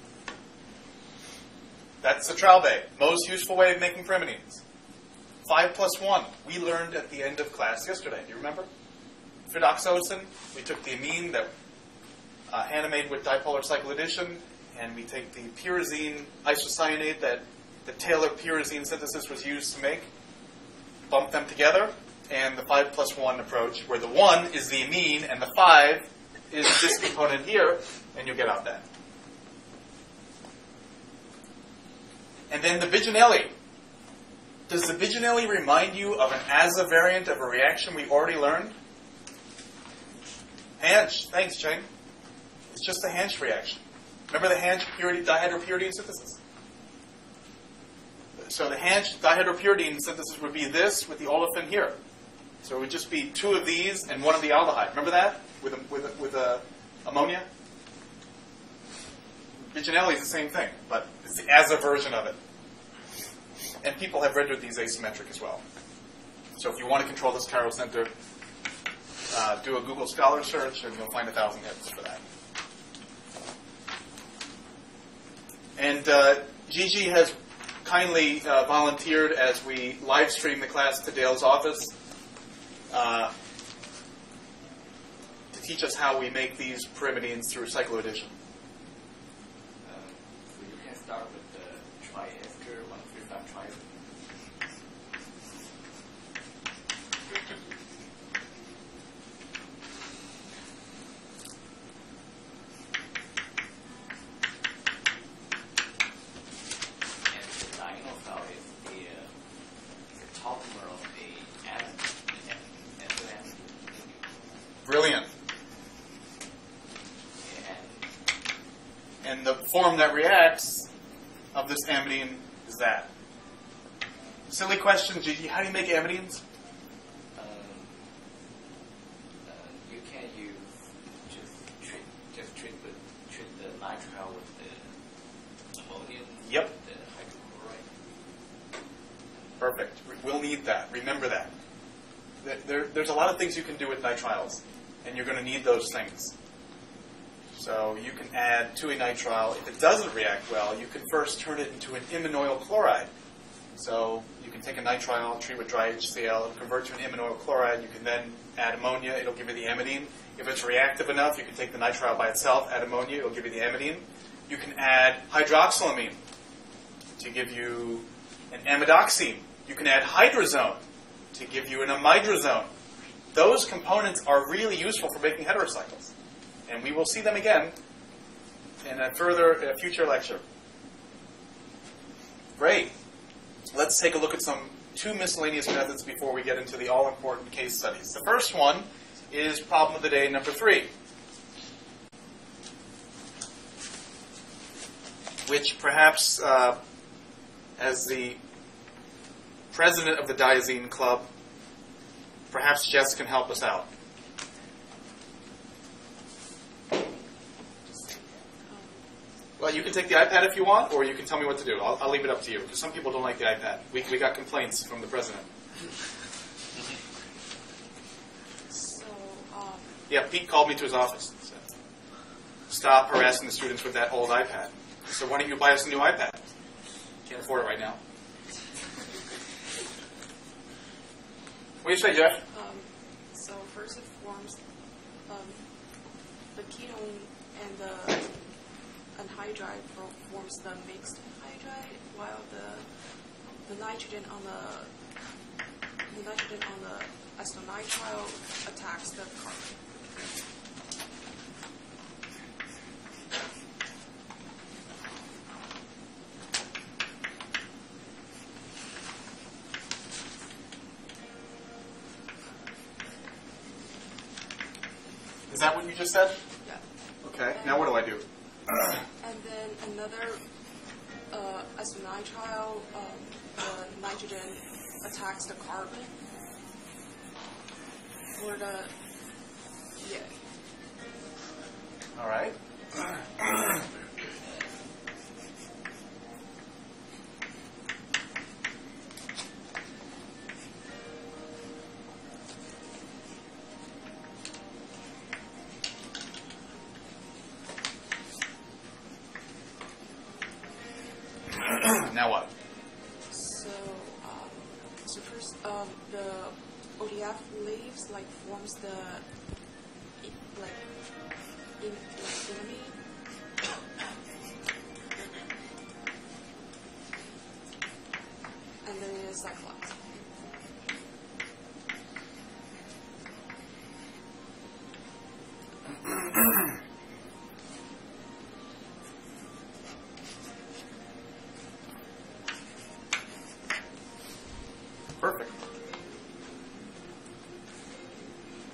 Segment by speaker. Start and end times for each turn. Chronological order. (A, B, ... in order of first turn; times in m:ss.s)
0:02.0-0:04.6 A
0:05.4-0:08.7 A
0:09.5-0:11.5 A
0:12.5-0:20.1 A
0:21.1-0:28.8 A
0:32.5-0:33.5 A
0:34.7-0:38.8 A
0:40.8-0:41.9 A
0:42.7-0:46.4 A
0:48.4-0:52.0 A
0:52.6-0:57.5 A
0:59.7-1:02.4 A
1:03.8-1:05.6 A
1:06.6-1:08.1 A
1:09.3-1:12.2 A
1:15.8-1:21.9 A
1:22.9-1:23.3 A
1:25.5-1:28.4 A
1:29.8-1:33.8 B
1:47.3-1:49.3 B
1:50.1-1:54.4 B
1:54.9-1:55.3 A
1:57.4-1:58.1 B
1:59.2-2:00.9 A
2:01.5-2:03.1 A
2:04.5-2:06.4 A
2:07.3-2:08.0 B
2:09.4-2:10.7 B
2:11.3-2:14.9 B
2:15.8-2:17.9 B
2:16.4-2:16.7 A
2:19.6-2:21.5 A
2:22.4-2:26.3 A
2:27.6-2:33.1 A
2:33.8-2:46.2 A
2:47.2-2:50.8 A
2:51.3-2:52.7 A
2:53.3-2:56.1 A
2:56.7-2:57.8 A
2:58.8-3:00.4 A
3:02.6-3:02.9 A
3:03.7-3:10.9 A
3:15.5-3:16.8 A
3:17.8-3:18.4 A
3:19.7-3:21.3 A
3:22.5-3:23.9 A
3:28.6-3:29.0 C
3:29.6-3:35.5 A
3:38.7-3:40.0 C
3:40.1-3:41.7 A
3:42.7-3:46.4 A
3:47.3-3:48.0 A
3:51.8-3:52.4 A
3:52.5-3:54.6 C
3:55.3-3:55.6 C
3:56.5-3:58.3 C
3:59.2-4:02.9 C
4:03.6-4:04.9 C
4:06.1-4:09.9 C
4:25.5-4:26.4 A
4:27.2-4:28.2 A
4:27.5-4:28.2 C
4:29.2-4:30.4 C
4:31.3-4:36.1 C
4:38.4-4:38.9 C
4:40.0-4:40.3 C
4:42.2-4:43.8 A
5:01.6-5:02.5 A
5:03.3-5:09.2 C
5:10.2-5:10.9 C
5:11.8-5:13.0 C
5:18.8-5:20.0 C
5:35.2-5:35.5 A